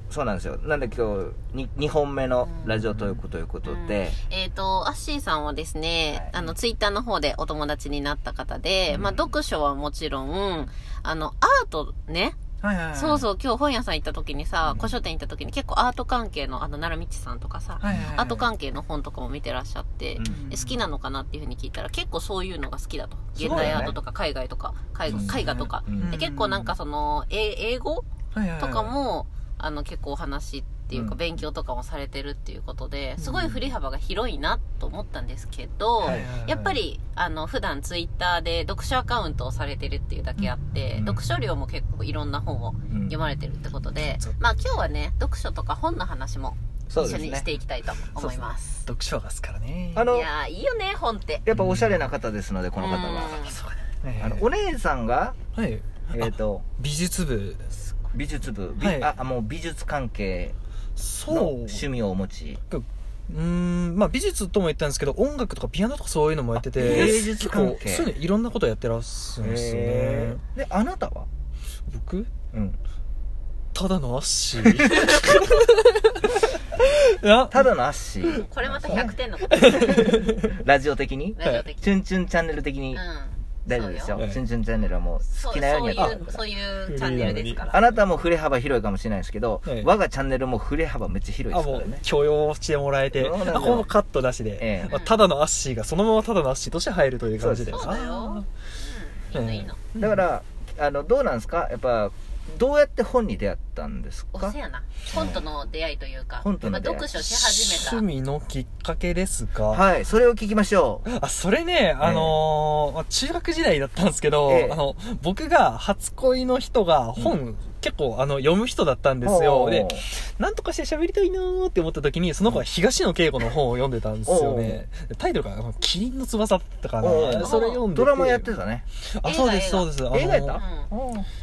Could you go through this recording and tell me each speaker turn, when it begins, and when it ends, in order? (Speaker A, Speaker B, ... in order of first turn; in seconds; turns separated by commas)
Speaker A: 0.1-4.2, Speaker B: 2.4-2.8, Speaker B: 3.6-12.4, Speaker A: 6.1-6.5, Speaker A: 8.9-9.3, Speaker C: 12.6-13.2, Speaker B: 12.9-28.1, Speaker C: 17.8-18.5, Speaker A: 20.1-20.4, Speaker C: 20.3-20.8, Speaker A: 23.4-24.0, Speaker C: 23.4-23.9, Speaker C: 25.1-26.7, Speaker A: 25.1-26.2, Speaker C: 28.3-28.9, Speaker B: 28.6-48.8, Speaker A: 30.9-31.2, Speaker C: 33.2-33.6, Speaker A: 36.0-36.3, Speaker C: 36.0-36.8, Speaker A: 40.9-41.2, Speaker A: 42.9-43.2, Speaker C: 44.0-44.8, Speaker A: 46.9-47.5, Speaker C: 48.1-50.0, Speaker A: 50.0-50.3, Speaker B: 50.1-51.5, Speaker A: 51.5-53.5, Speaker C: 51.5-52.1, Speaker B: 52.8-53.6, Speaker C: 53.4-54.5, Speaker A: 54.2-55.4, Speaker C: 55.5-57.7, Speaker A: 56.1-56.6, Speaker A: 58.1-60.5, Speaker C: 58.8-59.1, Speaker C: 61.0-61.9, Speaker A: 61.3-62.6, Speaker C: 62.7-70.4, Speaker A: 66.8-68.1, Speaker A: 69.4-71.3, Speaker C: 71.9-72.3, Speaker A: 72.5-72.8, Speaker C: 73.7-77.7, Speaker A: 77.5-79.2, Speaker C: 78.2-80.6, Speaker B: 78.3-80.2, Speaker A: 79.8-83.0, Speaker B: 81.4-81.9, Speaker B: 82.9-84.2, Speaker A: 83.7-86.4, Speaker B: 85.3-87.9, Speaker C: 86.0-86.2, Speaker C: 86.9-87.6, Speaker A: 87.1-92.0, Speaker C: 89.7-89.9, Speaker C: 91.5-98.5, Speaker A: 93.1-93.9, Speaker A: 94.6-95.0, Speaker B: 94.9-95.2, Speaker A: 97.4-98.0, Speaker B: 97.7-99.8, Speaker C: 99.3-100.2, Speaker A: 100.0-104.5, Speaker B: 104.3-108.0, Speaker A: 105.1-105.5, Speaker A: 106.4-107.2, Speaker C: 107.2-109.8, Speaker A: 109.7-111.1, Speaker C: 111.1-128.5, Speaker A: 112.0-112.4, Speaker A: 114.4-114.8, Speaker A: 119.2-120.1, Speaker A: 124.2-124.8, Speaker A: 127.0-128.9, Speaker B: 127.4-127.8, Speaker C: 129.0-130.6, Speaker B: 129.2-129.9, Speaker A: 130.1-131.3, Speaker B: 130.6-130.9